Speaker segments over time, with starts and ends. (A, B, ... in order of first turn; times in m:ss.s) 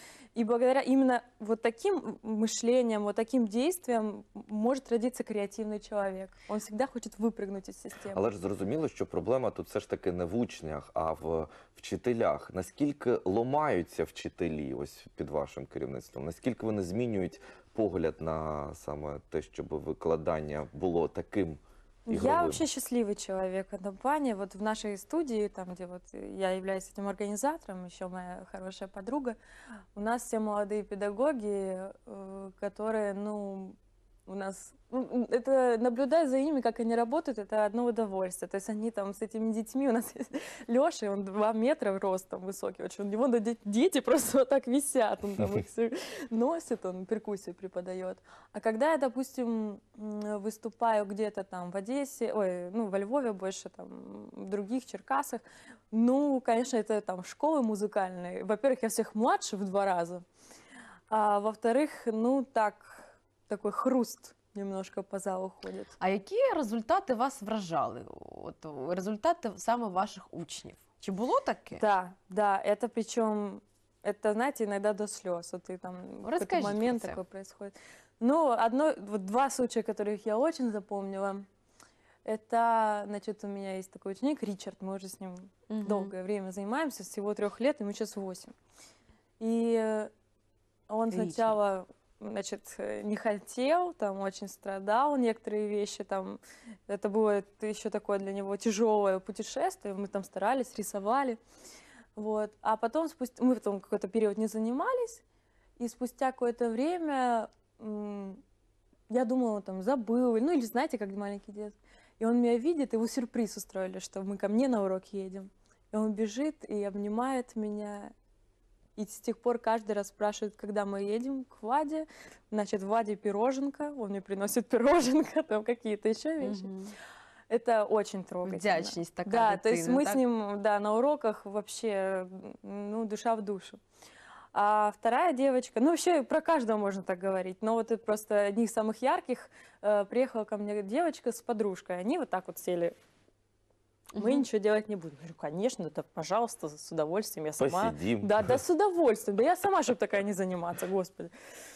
0:00.3-0:08.3 A
0:08.1-0:22.6 B
0:22.1-0:29.4 A
0:29.9-1:00.2 A
1:01.1-1:05.9 A
1:06.0-1:11.8 C
1:11.7-1:21.4 A
1:16.2-1:17.2 C
1:22.2-1:28.5 A
1:25.7-1:26.1 C
1:29.4-1:30.1 A
1:30.9-1:41.4 A
1:31.1-1:31.6 C
1:42.2-1:45.2 A
1:45.8-1:48.4 A
1:49.1-1:58.1 A
1:59.0-2:06.7 A
2:06.4-2:06.9 C
2:07.5-2:13.8 A
2:08.4-2:10.2 C
2:14.5-2:22.9 A
2:24.1-2:24.4 C
2:24.2-2:31.3 A
2:27.6-2:28.6 B